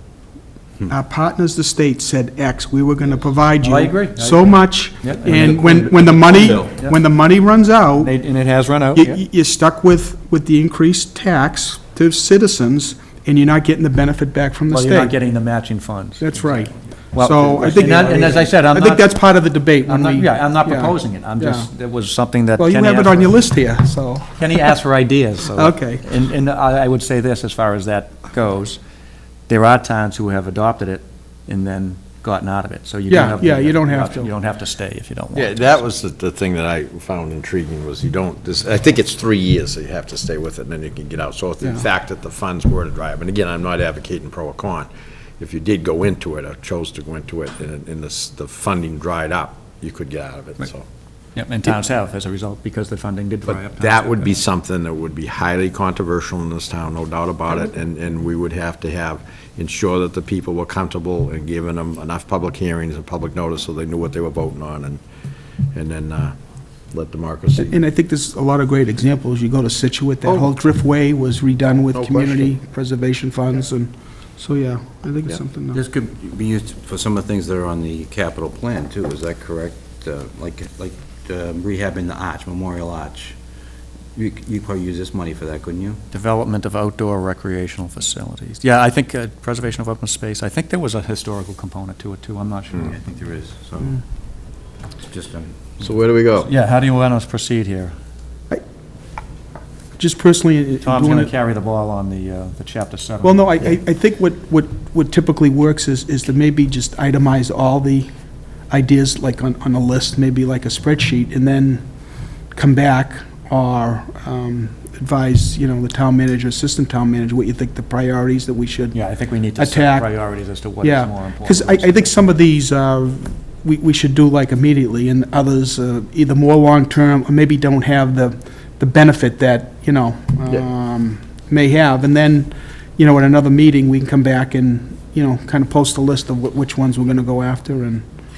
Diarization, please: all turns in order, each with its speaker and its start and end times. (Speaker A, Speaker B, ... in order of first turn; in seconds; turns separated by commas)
Speaker A: 0.9-8.2, Speaker B: 3.6-7.0, Speaker C: 5.7-6.7, Speaker B: 8.0-9.2, Speaker A: 8.9-15.2, Speaker B: 14.7-19.1, Speaker A: 16.2-21.7, Speaker B: 19.9-23.4, Speaker A: 22.6-24.8, Speaker B: 24.4-28.8, Speaker A: 25.5-26.1, Speaker B: 29.5-35.7, Speaker A: 33.1-34.3, Speaker D: 35.3-50.8, Speaker B: 51.3-54.3, Speaker D: 53.5-65.0, Speaker D: 65.7-66.3, Speaker D: 66.9-67.8, Speaker A: 67.6-75.8, Speaker D: 70.2-70.5, Speaker D: 71.9-72.5, Speaker C: 75.7-83.3, Speaker C: 84.1-86.0, Speaker B: 86.1-93.1, Speaker C: 92.8-94.0, Speaker C: 95.1-95.9, Speaker D: 95.8-96.5, Speaker B: 96.4-97.9, Speaker A: 100.0-101.3, Speaker B: 100.8-103.5, Speaker A: 103.2-108.1, Speaker A: 108.7-111.8, Speaker A: 112.5-119.0, Speaker B: 118.9-122.1, Speaker A: 119.5-138.1